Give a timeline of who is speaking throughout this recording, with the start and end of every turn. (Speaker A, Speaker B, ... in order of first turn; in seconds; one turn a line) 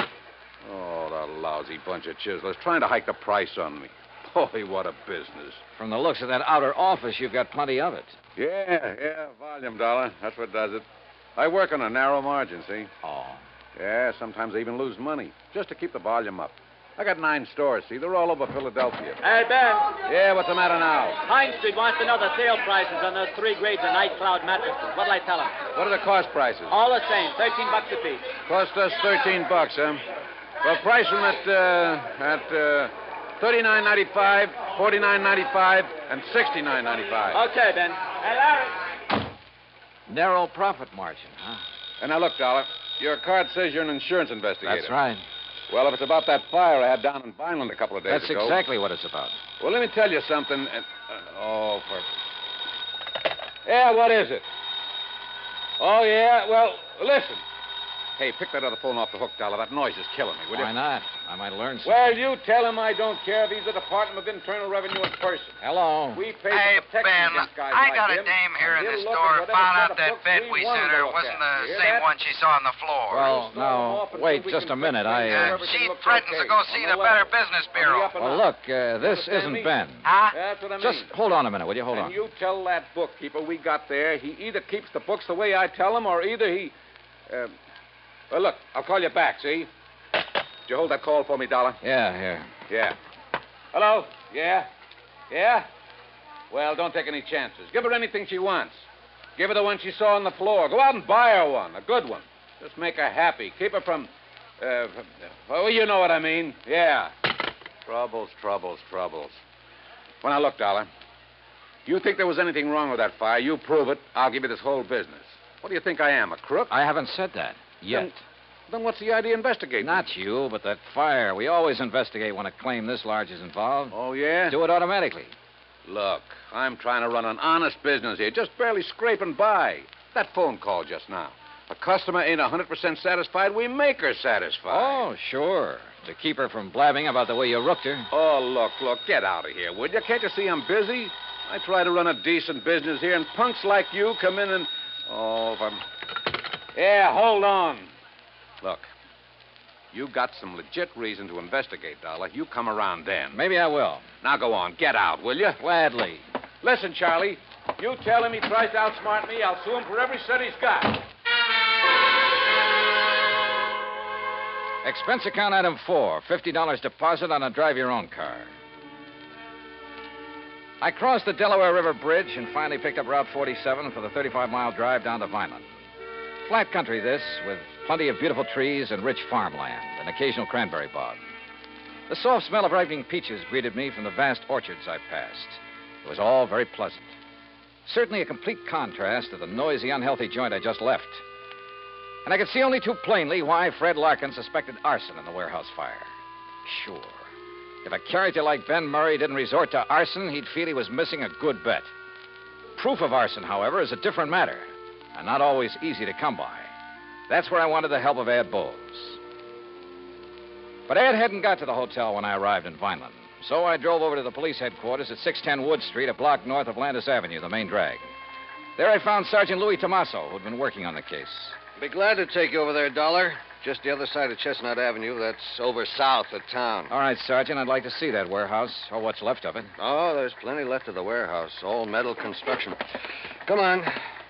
Speaker A: 0.6-5.6
Speaker B: 5.8-8.2
Speaker A: 8.4-10.8
Speaker A: 11.4-12.9
Speaker B: 13.0-13.4
Speaker A: 13.8-19.2
Speaker C: 19.2-19.9
Speaker A: 20.0-21.2
Speaker C: 21.2-25.6
Speaker A: 25.7-26.7
Speaker C: 26.7-28.3
Speaker A: 28.4-30.0
Speaker A: 30.6-37.4
Speaker C: 37.3-38.8
Speaker B: 40.1-41.6
Speaker A: 42.0-44.9
Speaker B: 44.6-45.2
Speaker A: 45.7-48.6
Speaker B: 48.1-49.4
Speaker A: 49.6-52.1
Speaker A: 53.6-54.4
Speaker A: 55.8-57.4
Speaker A: 58.2-60.7
Speaker B: 60.5-62.1
Speaker A: 61.8-65.5
Speaker B: 65.6-66.2
Speaker A: 66.1-72.1
Speaker D: 66.5-73.3
Speaker B: 73.1-75.6
Speaker A: 73.2-78.5
Speaker D: 75.3-78.1
Speaker B: 78.2-80.1
Speaker A: 79.0-79.7
Speaker D: 80.0-80.3
Speaker A: 80.3-81.1
Speaker B: 80.8-82.1
Speaker A: 81.9-86.7
Speaker A: 87.3-87.5
Speaker A: 88.3-89.7
Speaker A: 90.7-91.8
Speaker B: 91.8-92.5
Speaker A: 92.7-93.0
Speaker A: 93.7-94.7
Speaker A: 95.3-95.7
Speaker A: 96.5-98.8
Speaker A: 99.4-107.1
Speaker A: 107.8-109.4
Speaker A: 110.2-110.9
Speaker A: 111.8-116.7
Speaker B: 116.7-118.2
Speaker A: 117.9-118.1
Speaker A: 118.7-120.1
Speaker B: 119.8-124.0
Speaker A: 123.9-124.6
Speaker B: 124.5-125.3
Speaker A: 125.8-135.0
Speaker B: 134.7-138.1
Speaker A: 138.1-145.8
Speaker A: 146.7-147.9
Speaker A: 148.6-148.9
Speaker A: 149.9-153.4
Speaker B: 153.3-154.1
Speaker A: 154.2-155.6
Speaker B: 155.6-156.2
Speaker A: 156.6-161.0
Speaker B: 164.8-168.5
Speaker B: 170.8-175.7
Speaker B: 176.4-181.2
Speaker B: 182.1-187.1
Speaker B: 187.8-191.2
Speaker B: 192.2-196.1
Speaker B: 196.6-197.3
Speaker B: 197.8-201.9
Speaker B: 202.8-206.7
Speaker B: 207.3-209.2
Speaker B: 210.9-218.1
Speaker B: 218.8-221.6
Speaker E: 221.8-226.9
Speaker B: 226.9-229.7
Speaker E: 229.8-232.8
Speaker E: 233.4-233.9